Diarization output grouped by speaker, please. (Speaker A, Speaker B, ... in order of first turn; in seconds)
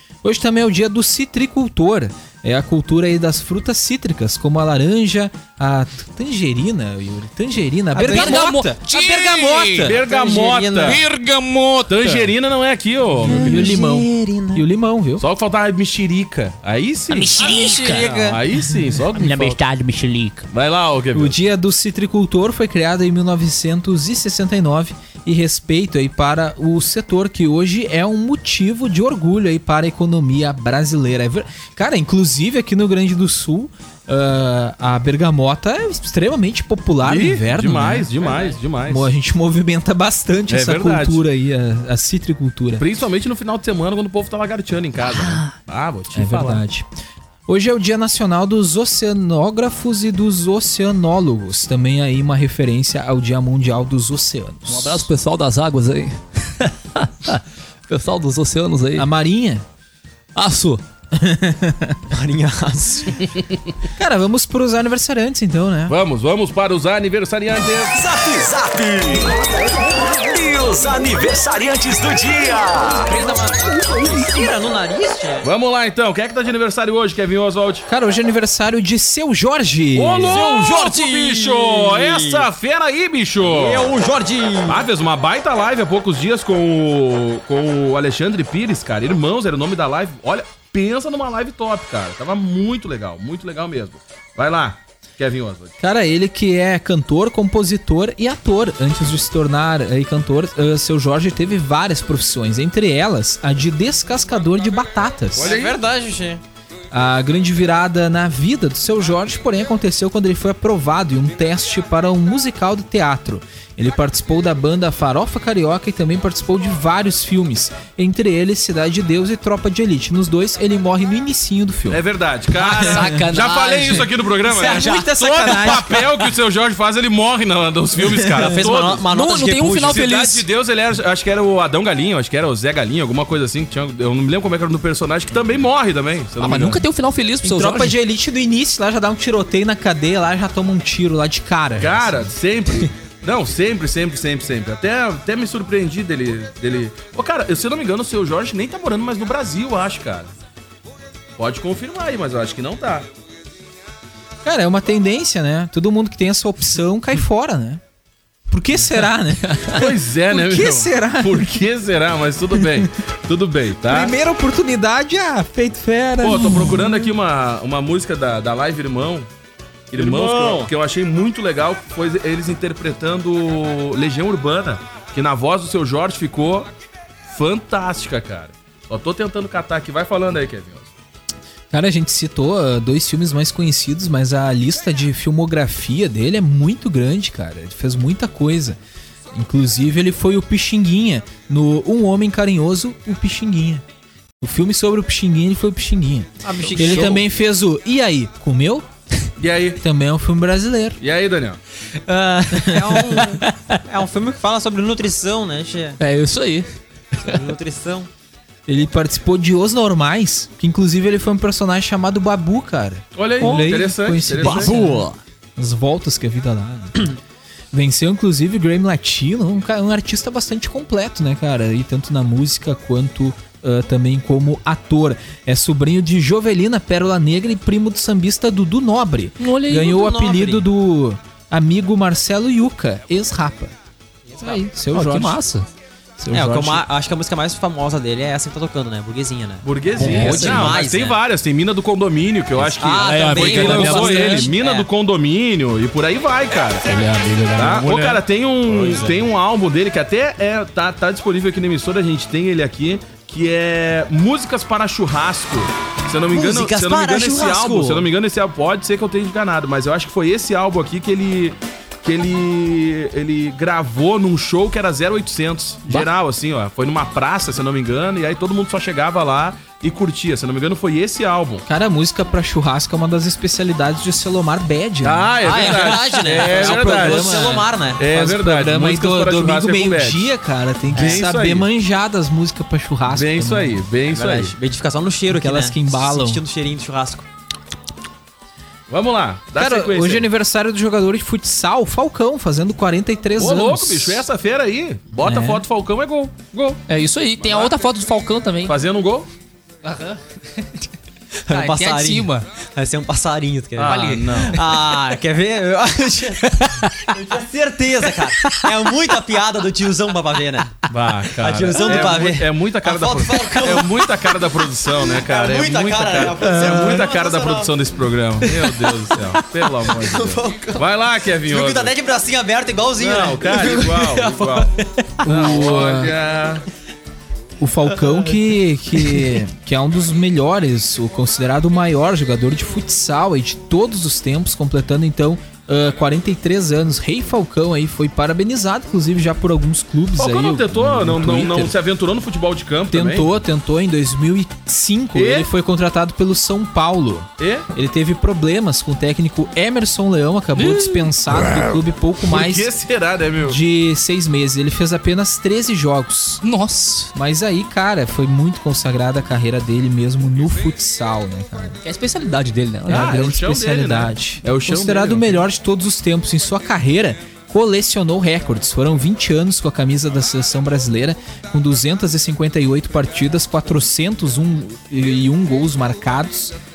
Speaker A: 0.2-8.6, 13.2-15.2, 21.1-38.1, 38.9-42.8, 46.1-46.9, 47.5-55.1, 58.9-59.6, 61.1-62.0, 64.0-66.0, 77.9-80.4, 95.8-105.5, 106.9-122.0, 122.9-123.2, 128.0-128.4, 137.4-142.3, 154.4-157.8, 158.5-161.7, 162.5-162.9, 163.8-167.0, 181.7-188.8, 189.3-193.8, 194.4-198.8, 199.8-201.0, 202.5-203.0, 208.7-217.1, 217.7-233.7, 234.4-235.4, 236.2-236.8, 271.6-275.7, 276.4-283.8, 285.3-286.4, 289.5-294.2, 295.2-295.6, 325.2-326.1, 327.6-341.8, 342.9-352.7, 353.4-356.4, 357.1-361.8, 362.9-376.5
Speaker B: 7.9-11.0, 13.2-14.6, 17.4-18.4, 38.2-38.5, 62.1-63.2, 72.9-75.5, 80.2-82.5, 83.4-84.8, 105.4-106.4, 124.5-126.1, 128.4-130.0, 170.0-170.7, 196.4-197.2, 202.6-206.0, 207.2-208.1, 214.4-215.1, 229.8-230.6, 234.3-234.6, 236.3-241.2, 242.8-244.9, 256.3-258.1, 275.4-278.0, 284.1-287.3, 301.5-314.4, 315.1-317.7, 319.8-320.8, 321.4-325.6
Speaker C: 8.0-10.0, 10.8-12.3, 17.1-18.1, 19.1-20.5, 45.0-45.5, 54.7-59.1, 60.3-60.8, 122.5-124.8, 129.0-130.4, 136.4-137.9, 196.7-197.2, 202.1-202.6, 206.0-206.7, 213.4-213.8, 214.5-214.9, 229.4-230.0, 234.9-235.7, 239.9-240.8, 242.9-244.5, 246.8-249.1, 296.9-298.8, 299.8-300.8, 301.5-302.4, 303.8-304.6, 356.4-357.1, 361.8-363.2
Speaker D: 9.8-11.0, 11.9-13.8, 15.2-19.6, 20.5-21.3, 37.0-39.1, 40.5-41.2, 42.8-46.6, 65.9-68.0, 75.4-77.8, 79.9-83.9, 84.7-95.7, 105.3-105.8, 121.9-129.1, 129.8-136.8, 141.8-150.3, 151.4-153.1, 159.7-164.1, 166.2-169.3, 169.9-176.7, 177.3-180.9, 199.4-199.8, 201.0-201.6, 213.2-214.7, 239.6-246.8, 247.5-271.6, 275.0-280.3, 280.9-281.7, 283.1-284.5, 288.9-290.2, 293.4-296.8, 297.4-297.7, 298.6-299.3, 303.8-304.7, 310.9-321.9, 323.0-324.7, 325.2-326.6, 340.2-343.3, 345.1-345.5, 347.4-347.6, 350.6-351.1, 352.2-353.6, 362.9-365.4
Speaker E: 67.9-73.1